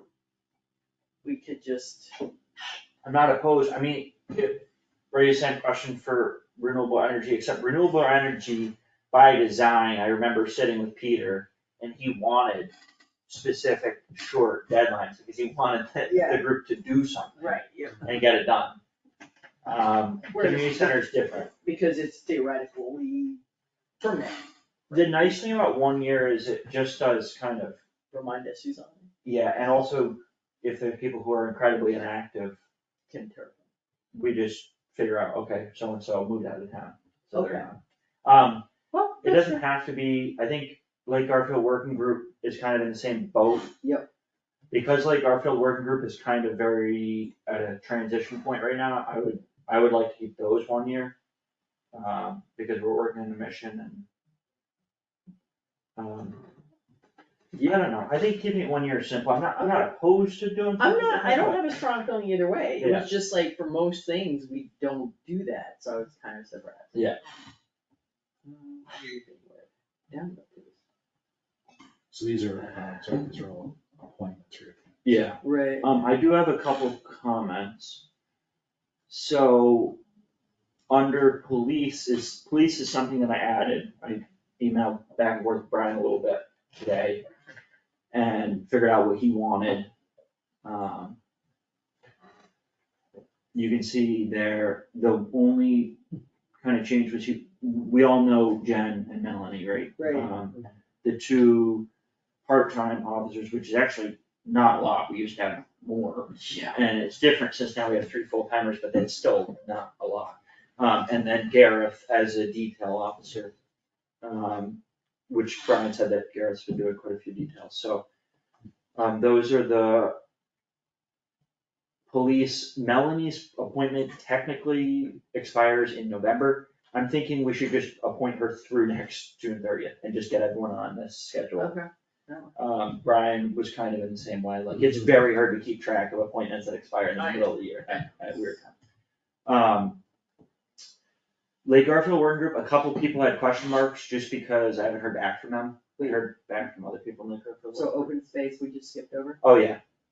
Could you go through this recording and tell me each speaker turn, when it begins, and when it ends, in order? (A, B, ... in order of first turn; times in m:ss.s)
0:01.2-0:02.2 A
0:03.0-0:12.7 B
0:13.3-0:18.8 B
0:16.1-0:16.4 A
0:17.4-0:18.1 A
0:19.6-0:21.5 B
0:20.3-0:23.4 A
0:24.0-0:25.3 A
0:24.9-0:27.8 B
0:28.1-0:29.1 A
0:29.2-0:32.6 B
0:33.1-0:33.6 A
0:34.1-0:38.6 B
0:37.3-0:37.7 A
0:38.9-0:39.6 A
0:39.2-0:43.7 B
0:43.8-0:44.1 A
0:44.7-0:51.1 B
0:51.9-0:54.0 B
0:56.0-0:56.4 B
0:57.5-1:01.6 B
1:00.8-1:07.0 A
1:02.8-1:03.1 B
1:08.4-1:10.7 A
1:12.1-1:14.9 C
1:15.0-1:18.0 B
1:15.4-1:15.9 A
1:19.1-1:20.0 B
1:20.9-1:27.2 B
1:28.1-1:29.9 B
1:30.6-1:31.2 B
1:33.5-1:36.0 B
1:36.6-1:41.9 B
1:40.0-1:40.3 A
1:42.4-1:53.5 B
1:46.4-1:46.8 A
1:54.2-1:58.0 B
1:59.0-2:00.2 B
2:02.1-2:11.7 B
2:11.6-2:12.5 A
2:12.6-2:18.6 B
2:17.2-2:18.7 A
2:19.4-2:20.0 B
2:21.6-2:28.1 B
2:27.7-2:29.4 A
2:29.4-2:29.8 B